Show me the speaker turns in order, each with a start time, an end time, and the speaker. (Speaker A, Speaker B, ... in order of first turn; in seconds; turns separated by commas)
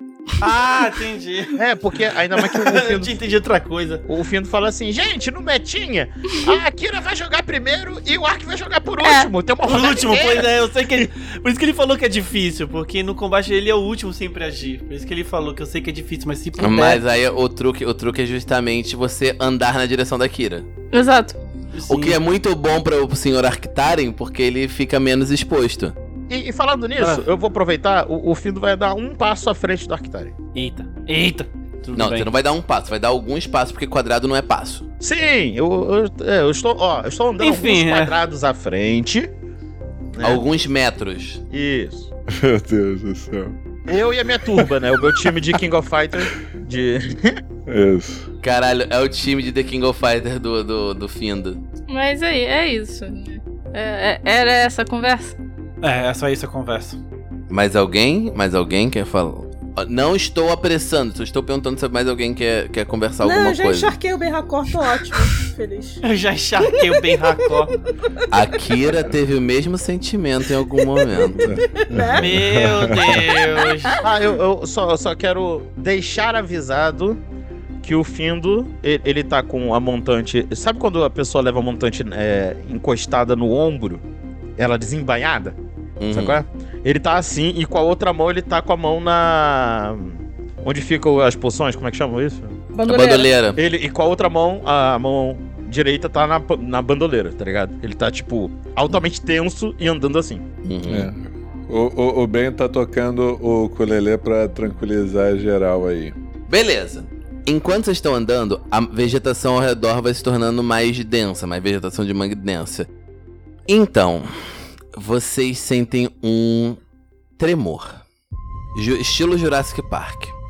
Speaker A: 0.4-1.6, Speaker B: 1.5-3.2, Speaker A: 2.3-4.0, Speaker B: 4.0-11.1, Speaker C: 9.0-9.3, Speaker A: 9.6-17.0, Speaker D: 16.6-20.7, Speaker C: 20.9-21.4, Speaker A: 21.7-22.2, Speaker D: 21.9-25.9, Speaker B: 26.3-30.3, Speaker A: 27.0-27.2, Speaker A: 30.5-32.3, Speaker D: 31.9-34.8, Speaker B: 35.0-39.3, Speaker A: 37.4-38.1, Speaker B: 40.1-40.4, Speaker D: 40.2-41.4, Speaker B: 41.5-42.1, Speaker E: 42.3-43.5, Speaker B: 43.9-47.4, Speaker E: 47.7-48.3, Speaker D: 48.4-51.6, Speaker C: 51.9-55.4, Speaker A: 55.8-57.0, Speaker D: 57.5-64.0, Speaker F: 63.2-66.0, Speaker A: 66.0-67.7, Speaker F: 66.6-67.5, Speaker D: 68.3-71.5, Speaker F: 70.8-72.3, Speaker E: 71.4-73.2, Speaker A: 72.2-74.0, Speaker B: 74.0-77.2, Speaker B: 77.8-84.0, Speaker B: 84.6-85.6, Speaker D: 86.0-86.4, Speaker B: 86.1-92.6, Speaker F: 92.7-93.3, Speaker D: 92.8-93.6, Speaker B: 93.5-100.4, Speaker D: 100.6-101.1, Speaker E: 100.9-106.1, Speaker D: 106.5-112.9, Speaker D: 113.7-114.3, Speaker D: 114.9-116.8, Speaker D: 117.4-118.0, Speaker D: 118.7-120.3